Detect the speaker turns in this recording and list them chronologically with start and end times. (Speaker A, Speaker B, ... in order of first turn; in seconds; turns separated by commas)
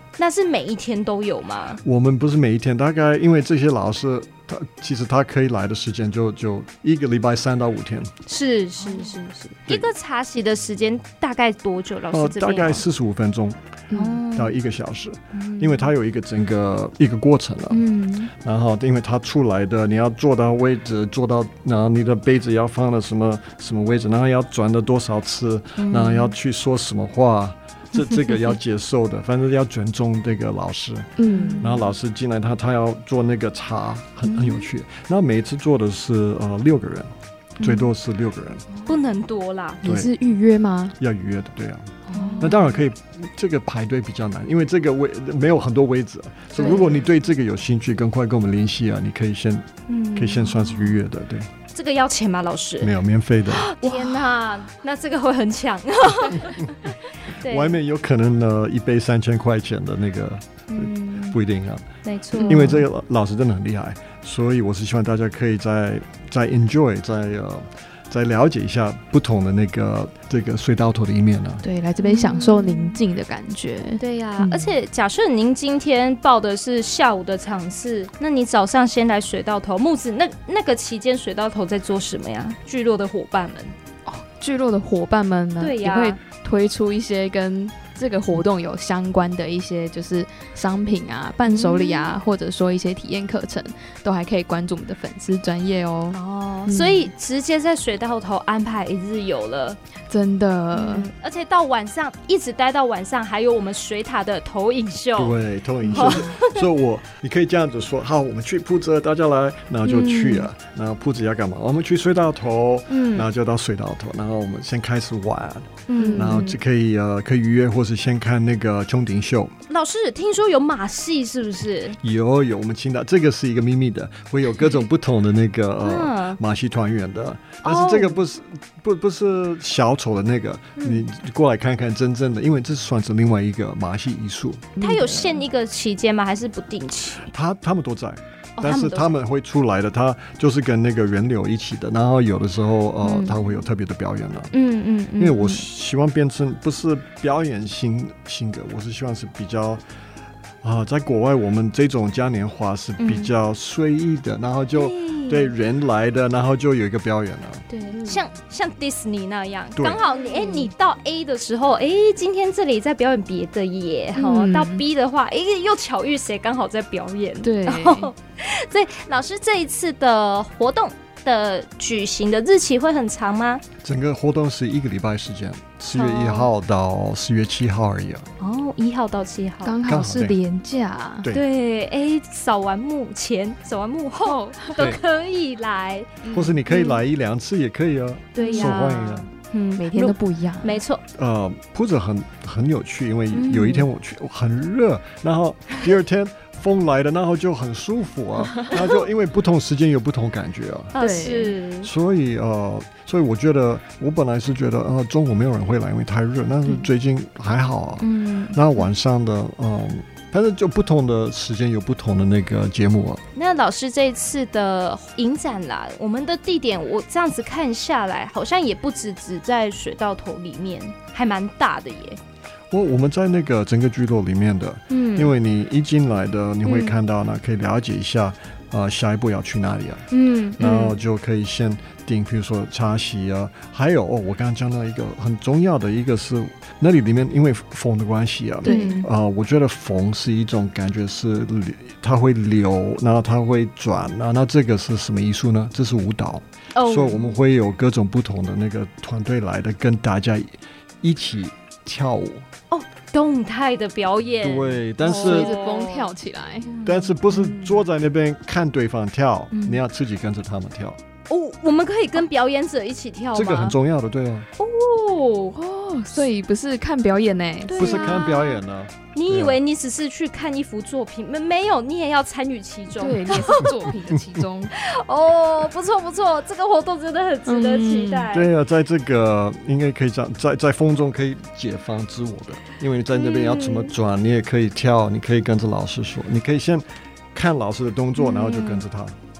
Speaker A: 0.2-1.8, Speaker B: 1.8-8.1, Speaker A: 8.3-12.8, Speaker B: 12.1-13.6, Speaker C: 13.9-14.2, Speaker A: 13.9-14.5, Speaker B: 14.3-17.9, Speaker A: 15.3-15.9, Speaker A: 17.7-18.3, Speaker B: 18.4-38.7, Speaker A: 25.8-26.4, Speaker C: 31.2-31.7, Speaker A: 31.2-31.9, Speaker C: 37.6-37.9, Speaker A: 38.9-39.8, Speaker C: 39.8-41.0, Speaker B: 39.8-40.1, Speaker B: 41.0-51.5, Speaker C: 42.1-42.8, Speaker A: 42.1-42.6, Speaker C: 46.6-46.9, Speaker A: 46.6-47.0, Speaker A: 49.9-50.9, Speaker A: 51.7-52.9, Speaker B: 52.8-53.7, Speaker A: 53.5-57.8, Speaker C: 53.8-54.2, Speaker B: 57.3-61.9, Speaker A: 60.7-61.4, Speaker A: 62.0-62.8, Speaker C: 62.3-62.9, Speaker B: 62.5-71.6, Speaker C: 71.6-74.8, Speaker A: 72.0-73.0, Speaker A: 74.0-83.8, Speaker C: 84.1-97.1, Speaker A: 85.6-86.2, Speaker A: 91.5-92.1, Speaker A: 96.1-99.8, Speaker C: 100.1-101.1, Speaker A: 100.7-105.3, Speaker B: 105.2-119.5, Speaker C: 105.9-106.3, Speaker A: 105.9-106.6, Speaker A: 109.8-110.5, Speaker A: 112.9-113.3, Speaker A: 115.9-116.6, Speaker C: 116.0-116.5, Speaker A: 119.7-122.0, Speaker B: 122.0-134.7, Speaker A: 125.8-126.4, Speaker A: 127.6-128.2, Speaker A: 130.8-131.1, Speaker C: 134.8-135.4, Speaker A: 134.8-137.3, Speaker B: 137.3-144.5, Speaker A: 138.6-139.1, Speaker A: 143.0-143.3, Speaker A: 144.5-145.7, Speaker B: 145.2-149.8, Speaker B: 150.6-157.7, Speaker A: 153.0-153.3, Speaker A: 154.7-155.5, Speaker A: 157.7-173.6, Speaker C: 157.9-158.2, Speaker B: 159.8-160.0, Speaker C: 160.2-160.7, Speaker C: 164.1-164.8, Speaker C: 167.4-168.1, Speaker B: 173.8-178.3, Speaker A: 175.9-176.5, Speaker A: 178.4-179.8, Speaker C: 179.6-181.3, Speaker B: 179.8-180.4, Speaker A: 181.3-186.1, Speaker C: 184.2-184.9, Speaker C: 186.2-186.6, Speaker B: 186.3-189.3, Speaker A: 188.3-191.0, Speaker C: 188.4-188.8, Speaker C: 189.8-190.8, Speaker B: 191.2-201.0, Speaker C: 193.3-193.8, Speaker A: 200.9-201.9, Speaker C: 201.0-201.6, Speaker B: 201.8-213.2, Speaker A: 208.0-208.6, Speaker A: 213.3-222.2, Speaker B: 222.7-230.1, Speaker A: 224.9-225.3, Speaker A: 226.7-227.0, Speaker A: 230.1-231.0, Speaker B: 230.6-252.5, Speaker C: 238.6-239.0, Speaker A: 238.6-239.1, Speaker A: 246.8-247.3, Speaker A: 252.7-257.6, Speaker B: 254.4-255.5, Speaker C: 255.0-256.7, Speaker B: 256.8-261.0, Speaker A: 259.5-259.8, Speaker A: 261.3-263.8, Speaker B: 263.3-264.5, Speaker A: 264.6-265.6, Speaker C: 265.6-268.1, Speaker A: 267.6-268.6, Speaker B: 267.8-269.6, Speaker A: 269.1-273.8, Speaker C: 273.0-274.7, Speaker A: 274.8-278.5, Speaker C: 277.5-278.3, Speaker B: 278.3-289.2, Speaker A: 283.1-283.9, Speaker A: 288.1-288.8